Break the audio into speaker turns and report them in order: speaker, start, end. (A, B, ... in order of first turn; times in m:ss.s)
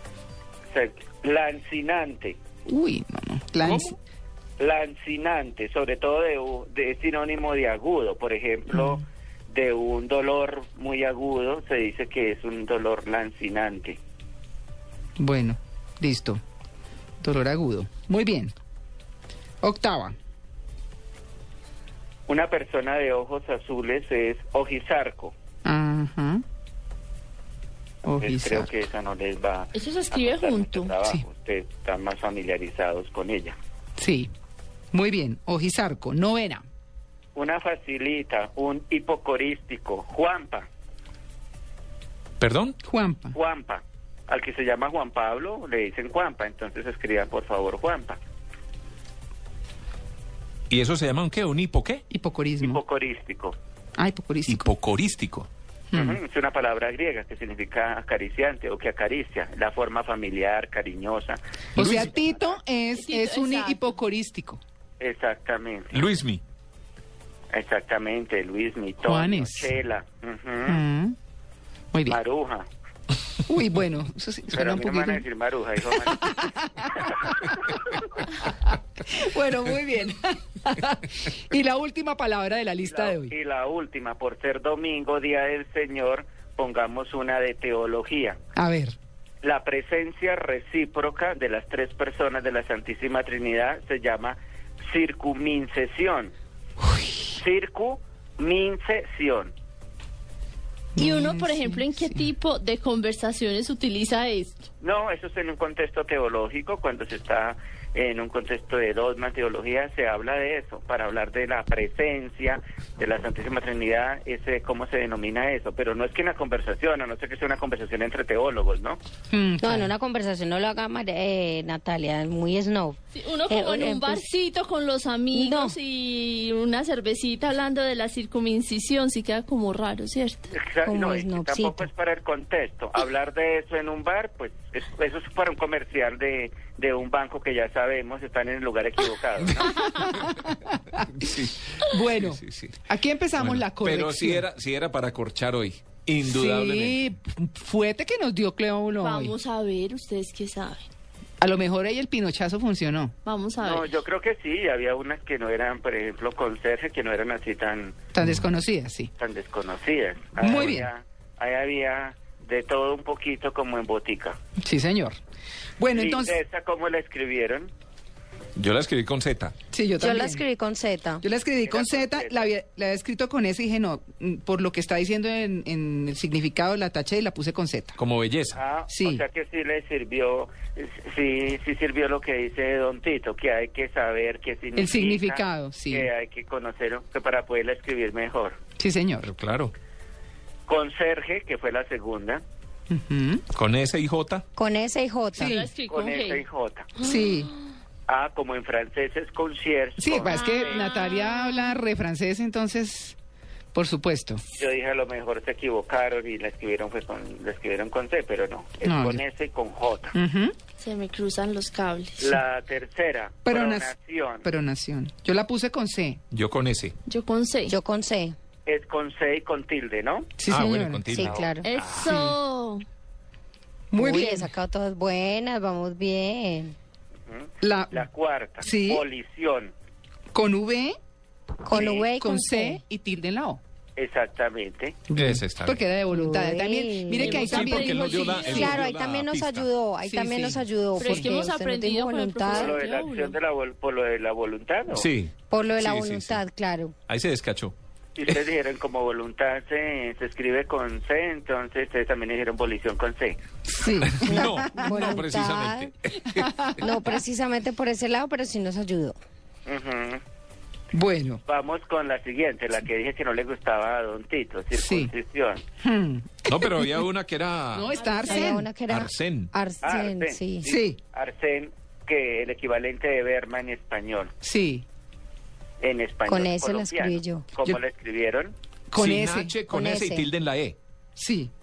0:00.7-0:02.4 A
0:02.7-0:04.0 B
0:03.6-0:03.9 C
0:04.6-0:14.0 A
0:08.7-0:09.0 B
0:15.2-0:16.4 B
0:17.2-0:18.5 B
0:19.6-0:20.2 B
0:22.3-0:25.4 A
0:25.6-0:26.4 B
0:28.0-0:28.7 B
0:28.2-0:33.6 A
0:29.8-0:30.9 D
0:34.0-0:34.3 B
0:34.9-0:36.7 B
0:37.4-0:40.7 A
0:42.4-0:42.8 C
0:42.8-0:43.4 B
0:43.3-0:48.2 A
0:50.7-0:52.0 C
0:52.1-0:52.8 B
0:52.6-0:53.6 A
0:54.0-0:54.7 B
0:54.5-0:55.5 C
0:55.9-0:56.2 B
0:55.9-1:01.4 A
1:01.8-1:04.6 B
1:01.8-1:02.1 C
1:03.0-1:04.0 D
1:05.0-1:06.1 A
1:05.9-1:06.4 C
1:07.5-1:10.8 A
1:09.0-1:09.7 B
1:10.7-1:11.2 B
1:11.9-1:12.2 B
1:12.1-1:12.7 A
1:13.5-1:15.2 B
1:14.5-1:17.6 A
1:15.9-1:17.2 B
1:18.4-1:23.3 B
1:22.8-1:28.4 A
1:28.6-1:29.0 B
1:29.4-1:36.3 A
1:36.8-1:37.3 B
1:37.3-1:39.5 A
1:41.0-1:42.3 B
1:41.0-1:44.7 D
1:44.8-1:59.0 A
1:59.3-1:59.9 B
1:59.6-2:03.0 E
2:03.1-2:10.5 D
2:03.5-2:04.2 E
2:05.3-2:05.8 E
2:10.5-2:19.8 A
2:10.9-2:11.9 E
2:19.6-2:20.5 C
2:20.0-2:24.4 B
2:21.0-2:22.8 C
2:23.4-2:27.0 C
2:26.2-2:29.4 B
2:29.0-2:30.9 D
2:31.4-2:33.2 B
2:33.3-2:33.9 D
2:33.6-2:38.0 A
2:38.1-2:39.1 B
2:39.2-2:44.4 A
2:40.4-2:40.9 B
2:40.5-2:40.8 C
2:44.6-2:45.2 B
2:45.8-2:46.4 B
2:45.9-2:47.7 A
2:48.6-2:49.6 C
2:49.7-2:50.4 B
2:50.0-2:51.2 E
2:51.2-2:58.0 B
2:51.6-2:52.5 A
2:58.0-2:58.6 C
2:58.5-3:08.6 A
2:58.9-2:59.2 B
3:04.8-3:06.1 B
3:08.8-3:09.3 B
3:09.2-3:09.7 C
3:10.7-3:12.4 A
3:12.9-3:13.4 B
3:13.5-3:14.4 C
3:14.6-3:15.6 E
3:15.4-3:15.7 B
3:15.4-3:16.4 D
3:15.9-3:16.9 A
3:17.0-3:17.3 D
3:17.0-3:17.5 B
3:18.1-3:20.7 A
3:20.0-3:23.2 B
3:20.3-3:21.8 D
3:23.7-3:24.4 B
3:24.6-3:30.2 A
3:28.8-3:29.2 B
3:30.1-3:30.6 B
3:30.8-3:32.4 D
3:32.2-3:34.5 A
3:33.4-3:33.9 B
3:34.4-3:36.2 B
3:36.3-3:37.0 C
3:37.1-3:37.8 D
3:37.7-3:38.4 E
3:38.7-3:40.3 A
3:40.4-3:41.3 B
3:40.5-3:42.2 C
3:41.1-3:41.6 E
3:41.6-3:42.8 D
3:42.0-3:42.4 B
3:43.9-3:44.5 B
3:44.0-3:46.8 E
3:47.3-3:49.7 A
3:47.6-3:48.1 B
3:48.6-3:49.0 B
3:50.3-3:51.0 B
3:51.6-3:52.8 E
3:51.7-3:53.6 B
3:51.7-3:52.0 A
3:54.0-3:55.0 A
3:55.1-3:58.8 B
3:55.2-3:55.8 C
3:56.1-3:57.5 E
3:57.2-3:58.8 D
3:57.3-3:59.7 C
3:58.4-4:02.8 E
4:00.0-4:01.4 B
4:01.0-4:03.4 D
4:02.5-4:05.1 A
4:04.9-4:06.4 C
4:05.5-4:07.0 E
4:07.1-4:07.8 C
4:08.2-4:13.4 A
4:13.7-4:15.2 B
4:14.0-4:16.8 C
4:14.2-4:15.9 E
4:16.3-4:17.0 B
4:16.8-4:19.2 E
4:19.7-4:20.2 A
4:20.9-4:21.4 B
4:21.5-4:25.6 A
4:24.7-4:25.1 B
4:25.8-4:27.0 B
4:26.5-4:27.9 C
4:27.7-4:28.7 B
4:27.9-4:28.6 D
4:28.3-4:30.7 E
4:28.8-4:29.5 C
4:29.8-4:34.3 A
4:30.7-4:31.0 B
4:34.4-4:34.9 B
4:35.8-4:38.6 A
4:36.3-4:37.5 E
4:38.9-4:39.6 B
4:39.0-4:40.8 C
4:39.7-4:40.3 E
4:41.2-4:41.5 B